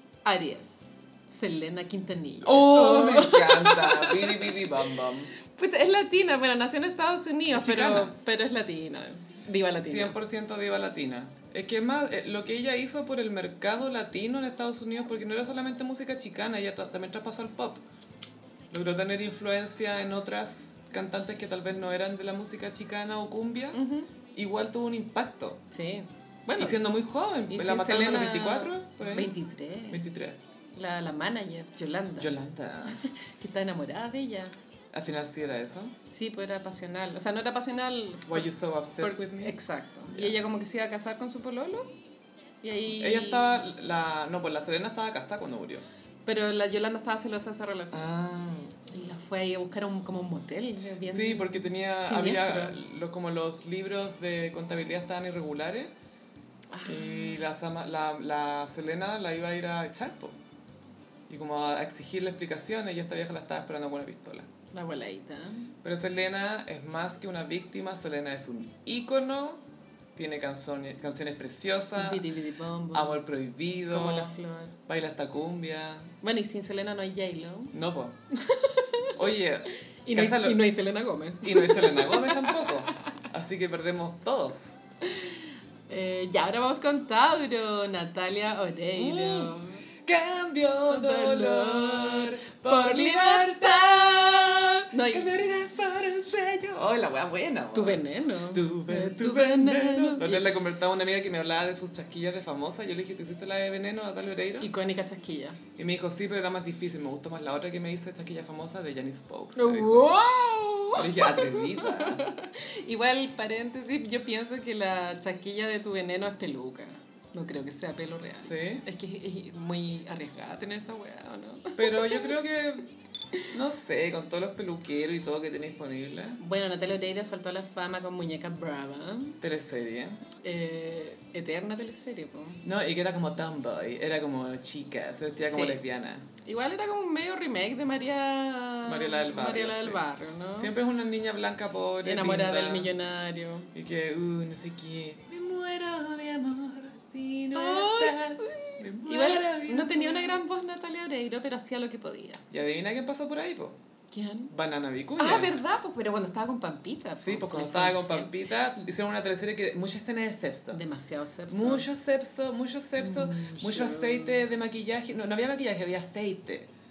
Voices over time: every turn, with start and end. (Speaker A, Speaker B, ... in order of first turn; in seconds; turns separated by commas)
Speaker A: 0.2-4.7, Speaker B: 2.4-5.3, Speaker A: 5.5-10.2, Speaker B: 7.5-8.1, Speaker B: 9.8-17.8, Speaker B: 18.7-23.8, Speaker A: 23.7-24.1, Speaker B: 24.3-25.6, Speaker A: 25.7-26.8, Speaker B: 26.6-29.3, Speaker A: 27.5-30.0, Speaker B: 29.9-30.4, Speaker A: 30.7-32.3, Speaker B: 32.2-33.0, Speaker A: 32.9-34.5, Speaker B: 34.9-36.0, Speaker A: 36.1-38.5, Speaker B: 38.3-39.6, Speaker A: 39.0-41.9, Speaker A: 42.6-43.6, Speaker B: 42.9-45.8, Speaker A: 46.2-48.0, Speaker B: 47.9-48.8, Speaker A: 48.9-52.8, Speaker B: 51.0-55.9, Speaker A: 56.7-57.4, Speaker B: 56.8-60.4, Speaker B: 61.3-64.5, Speaker A: 64.7-65.7, Speaker B: 65.8-69.6, Speaker B: 70.1-72.2, Speaker A: 71.9-73.2, Speaker B: 72.9-74.3, Speaker A: 73.9-74.7, Speaker B: 74.9-76.1, Speaker A: 76.2-77.7, Speaker B: 77.7-78.2, Speaker A: 78.3-79.2, Speaker B: 79.1-80.6, Speaker A: 80.0-82.9, Speaker B: 81.4-84.8, Speaker A: 85.0-89.8, Speaker B: 88.9-104.7, Speaker A: 90.9-94.1, Speaker A: 94.9-95.4, Speaker A: 97.7-100.5, Speaker A: 104.6-105.6, Speaker B: 105.8-110.1, Speaker A: 109.5-122.3, Speaker B: 110.9-112.2, Speaker B: 118.4-118.8, Speaker B: 121.8-122.9, Speaker B: 123.4-126.4, Speaker A: 126.4-129.4, Speaker B: 129.4-130.2, Speaker A: 130.4-132.6, Speaker B: 132.6-136.3, Speaker A: 135.4-135.8, Speaker A: 136.4-140.7, Speaker B: 138.8-140.0, Speaker B: 140.6-142.9, Speaker A: 142.0-143.7, Speaker B: 143.7-150.4, Speaker A: 147.5-152.4, Speaker B: 152.5-153.8, Speaker A: 154.1-154.5, Speaker B: 154.5-155.6, Speaker A: 155.2-158.8, Speaker B: 157.2-160.8, Speaker A: 160.7-161.9, Speaker B: 161.5-166.7, Speaker A: 163.0-164.5